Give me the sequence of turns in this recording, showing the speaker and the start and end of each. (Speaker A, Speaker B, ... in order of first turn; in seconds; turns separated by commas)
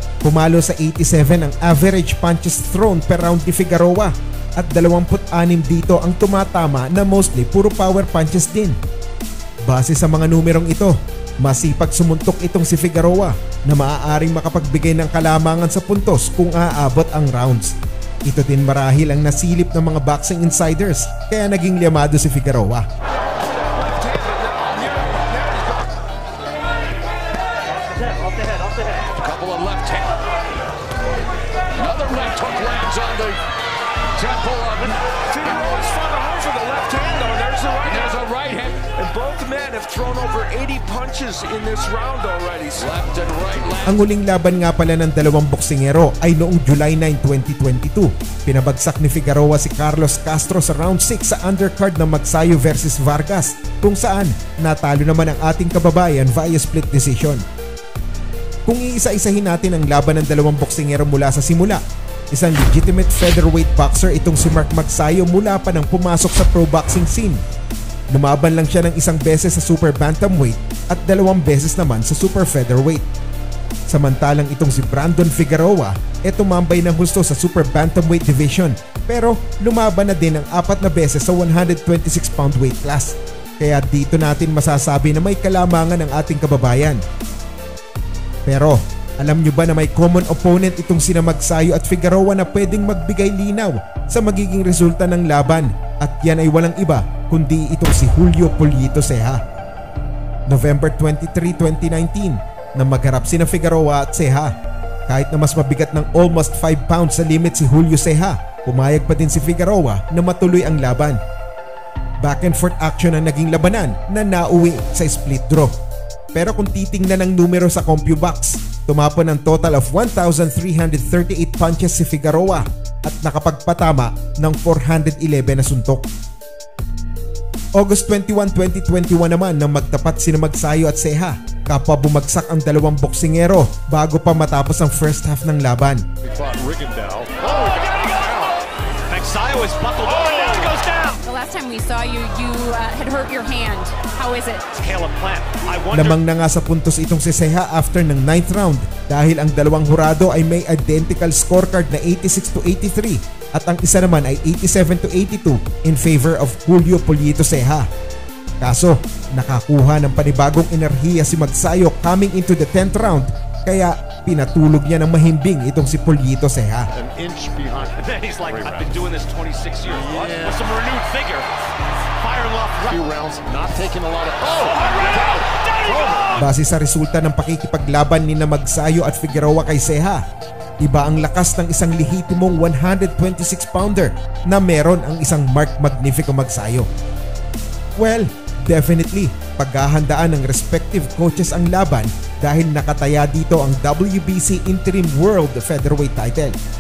Speaker A: 0.2-8.8, Speaker A: 9.6-22.9, Speaker B: 23.1-25.9, Speaker B: 28.0-28.9, Speaker C: 29.0-30.2, Speaker C: 31.7-33.4, Speaker C: 34.1-35.0, Speaker B: 35.1-38.2, Speaker C: 37.8-38.9, Speaker B: 38.9-42.9, Speaker C: 42.7-44.0, Speaker A: 43.8-57.4, Speaker A: 58.7-67.4, Speaker A: 68.1-73.1, Speaker A: 73.9-87.0, Speaker A: 88.5-99.4, Speaker A: 100.5-104.5, Speaker A: 105.1-111.2, Speaker A: 112.2-115.8, Speaker A: 116.3-126.1, Speaker A: 127.8-136.0, Speaker B: 136.2-138.6, Speaker D: 137.7-138.1, Speaker D: 139.1-141.2, Speaker E: 141.2-144.8, Speaker D: 144.7-146.2, Speaker A: 145.9-157.9, Speaker A: 158.6-166.9, Speaker B: 167.0-169.0, Speaker D: 167.9-171.5, Speaker C: 170.0-170.6, Speaker D: 172.2-173.1, Speaker C: 172.9-176.4, Speaker A: 176.3-180.2, Speaker A: 180.8-186.9, Speaker A: 188.0-196.6